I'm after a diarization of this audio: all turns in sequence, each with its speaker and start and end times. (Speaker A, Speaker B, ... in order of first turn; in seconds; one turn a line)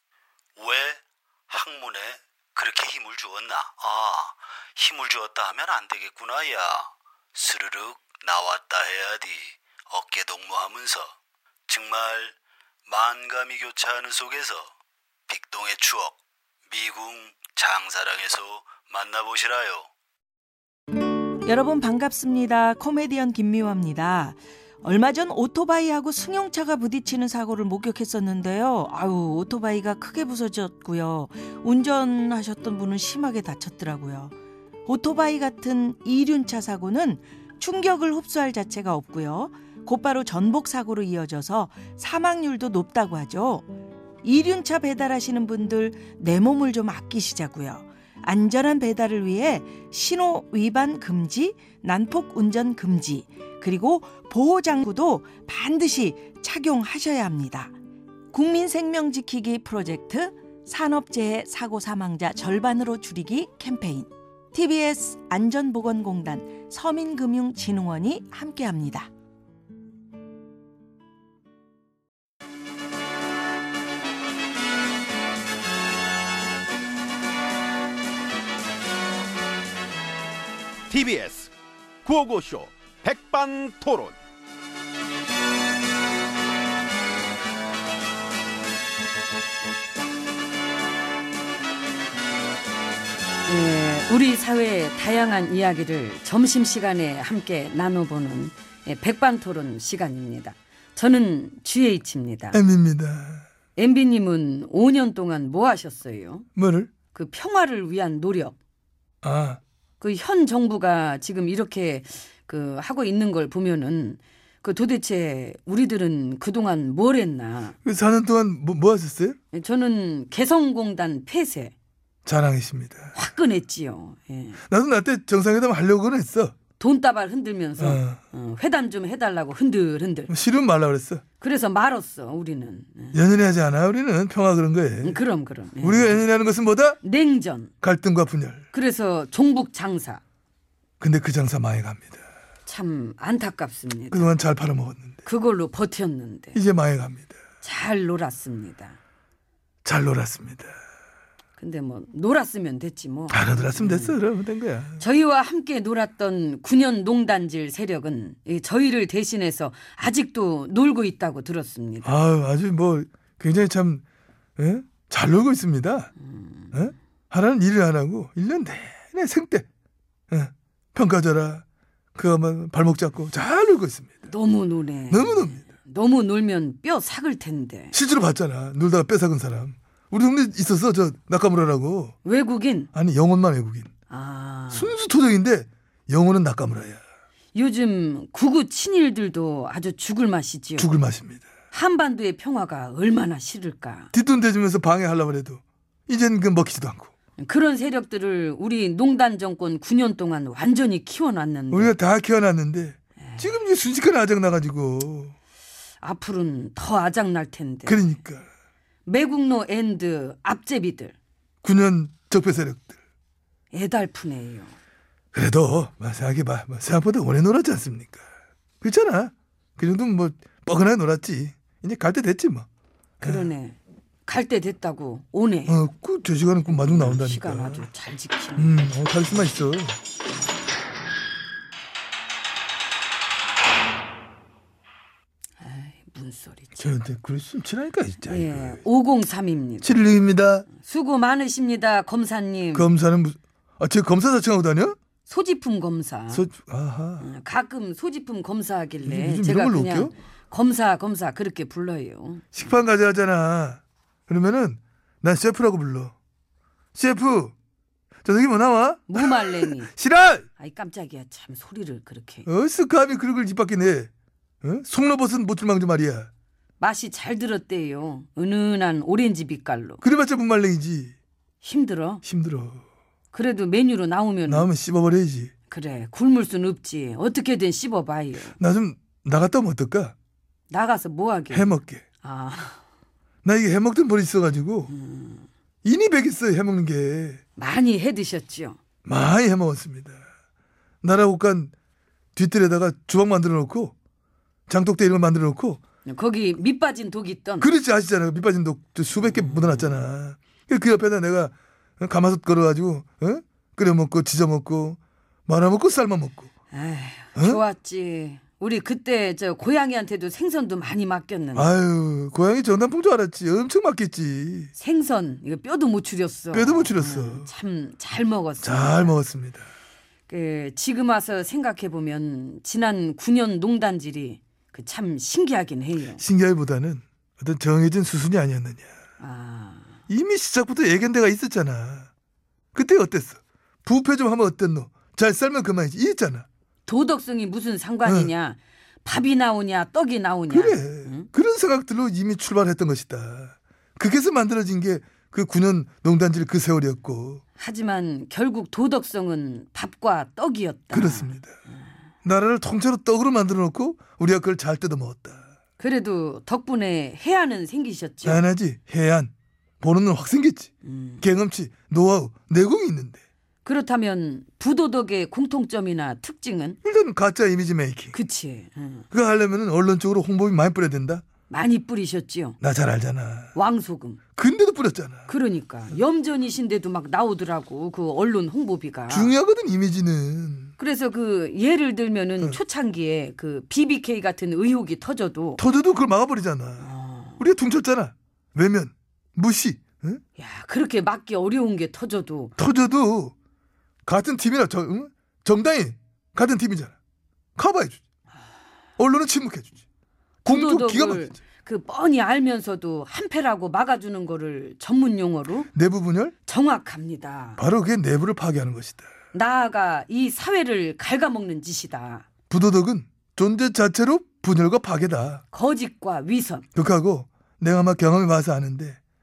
Speaker A: 0.6-11.1
Speaker A: 11.7-12.3
Speaker A: 12.9-14.7
Speaker A: 15.3-16.1
Speaker A: 16.7-19.9
Speaker B: 21.4-34.4
Speaker B: 34.9-43.7
Speaker B: 44.2-57.8
Speaker B: 58.3-69.1
Speaker C: 80.9-81.5
Speaker C: 82.0-84.1
Speaker D: 93.5-102.6
Speaker E: 102.5-103.4
Speaker D: 103.8-106.5
Speaker E: 106.5-106.9
Speaker D: 107.1-108.5
Speaker E: 109.2-109.6
Speaker D: 110.0-117.8
Speaker E: 117.8-119.4
Speaker D: 119.5-121.7
Speaker E: 122.2-123.1
Speaker D: 123.1-124.6
Speaker E: 124.7-126.5
Speaker D: 126.8-130.3
Speaker E: 127.8-128.2
Speaker E: 130.3-131.2
Speaker D: 131.4-133.2
Speaker E: 133.1-135.2
Speaker D: 135.0-136.2
Speaker E: 135.8-137.0
Speaker D: 137.0-137.7
Speaker E: 137.8-138.6
Speaker D: 138.7-140.2
Speaker E: 141.0-142.2
Speaker D: 142.7-144.3
Speaker E: 144.1-145.1
Speaker D: 145.2-146.6
Speaker E: 146.5-147.3
Speaker D: 147.6-149.0
Speaker E: 149.8-150.7
Speaker D: 151.6-154.2
Speaker E: 153.3-155.0
Speaker D: 155.0-162.1
Speaker E: 162.0-164.0
Speaker E: 164.6-166.1
Speaker D: 166.2-166.7
Speaker E: 166.7-169.7
Speaker E: 170.3-171.6
Speaker E: 172.2-174.3
Speaker D: 174.2-177.9
Speaker E: 175.1-175.7
Speaker E: 177.9-182.1
Speaker D: 182.2-182.9
Speaker E: 182.9-183.9
Speaker D: 184.1-184.9
Speaker E: 184.7-187.0
Speaker D: 187.5-190.9
Speaker E: 190.8-191.5
Speaker D: 191.7-194.1
Speaker E: 194.1-197.1
Speaker D: 197.4-201.9
Speaker E: 201.7-205.3
Speaker D: 203.2-203.5
Speaker D: 206.0-208.1
Speaker E: 207.8-208.4
Speaker D: 209.1-211.1
Speaker E: 211.6-212.9
Speaker D: 213.7-214.8
Speaker E: 215.3-218.2
Speaker E: 218.8-222.7
Speaker E: 223.2-223.5
Speaker D: 223.2-225.8
Speaker E: 225.7-227.9
Speaker D: 226.7-228.8
Speaker E: 228.6-230.0
Speaker D: 235.6-236.9
Speaker E: 236.8-238.8
Speaker D: 238.2-239.9
Speaker E: 239.8-240.7
Speaker D: 240.7-242.9
Speaker E: 242.7-244.9
Speaker D: 245.2-246.4
Speaker E: 246.3-247.3
Speaker D: 247.2-252.5
Speaker E: 249.0-250.1
Speaker E: 252.5-256.1
Speaker E: 256.9-257.5
Speaker E: 258.2-260.4
Speaker D: 259.1-259.9
Speaker D: 260.6-262.5
Speaker E: 262.4-264.1
Speaker E: 264.6-266.3
Speaker D: 266.8-270.0
Speaker E: 270.0-271.1
Speaker D: 271.6-272.2
Speaker E: 272.2-272.8
Speaker D: 273.3-274.7
Speaker E: 274.4-275.5
Speaker D: 275.7-278.5
Speaker E: 278.6-280.1
Speaker D: 280.7-282.8
Speaker E: 281.5-282.0
Speaker E: 283.4-284.9
Speaker D: 284.9-285.4
Speaker E: 285.8-287.4
Speaker D: 287.6-288.8
Speaker E: 289.0-290.2
Speaker E: 291.0-291.7
Speaker E: 292.4-293.9
Speaker E: 294.7-295.8
Speaker D: 296.0-297.7
Speaker E: 297.6-306.5
Speaker D: 299.2-300.0
Speaker D: 306.7-311.7
Speaker E: 307.4-307.6
Speaker E: 311.5-314.7
Speaker D: 314.8-319.1
Speaker E: 316.5-317.5
Speaker E: 318.6-319.6
Speaker D: 320.3-326.2
Speaker E: 326.2-328.9
Speaker D: 329.2-329.9
Speaker E: 330.1-332.1
Speaker E: 332.7-336.4
Speaker D: 336.9-341.3
Speaker E: 338.0-338.3
Speaker E: 340.5-347.4
Speaker D: 347.6-351.4
Speaker E: 350.9-351.5
Speaker E: 352.2-355.4
Speaker D: 355.8-358.4
Speaker E: 358.2-363.2
Speaker D: 360.8-361.2
Speaker D: 363.6-366.8
Speaker E: 366.8-368.1
Speaker D: 368.1-369.1
Speaker E: 369.1-371.2
Speaker D: 371.5-372.6
Speaker E: 372.6-373.5
Speaker D: 373.5-374.2
Speaker E: 374.4-375.3
Speaker D: 375.3-379.3
Speaker E: 379.1-380.7
Speaker D: 380.8-385.6
Speaker E: 385.6-390.2
Speaker D: 386.8-387.4
Speaker D: 390.4-392.5
Speaker E: 392.6-393.3
Speaker E: 394.1-396.9
Speaker E: 397.6-398.0
Speaker E: 399.0-399.8
Speaker E: 400.4-401.3
Speaker D: 400.4-405.7
Speaker E: 405.7-406.3
Speaker D: 406.4-407.6
Speaker E: 407.6-409.1
Speaker D: 409.3-412.3
Speaker E: 412.5-415.4
Speaker D: 415.5-416.6
Speaker E: 416.7-419.0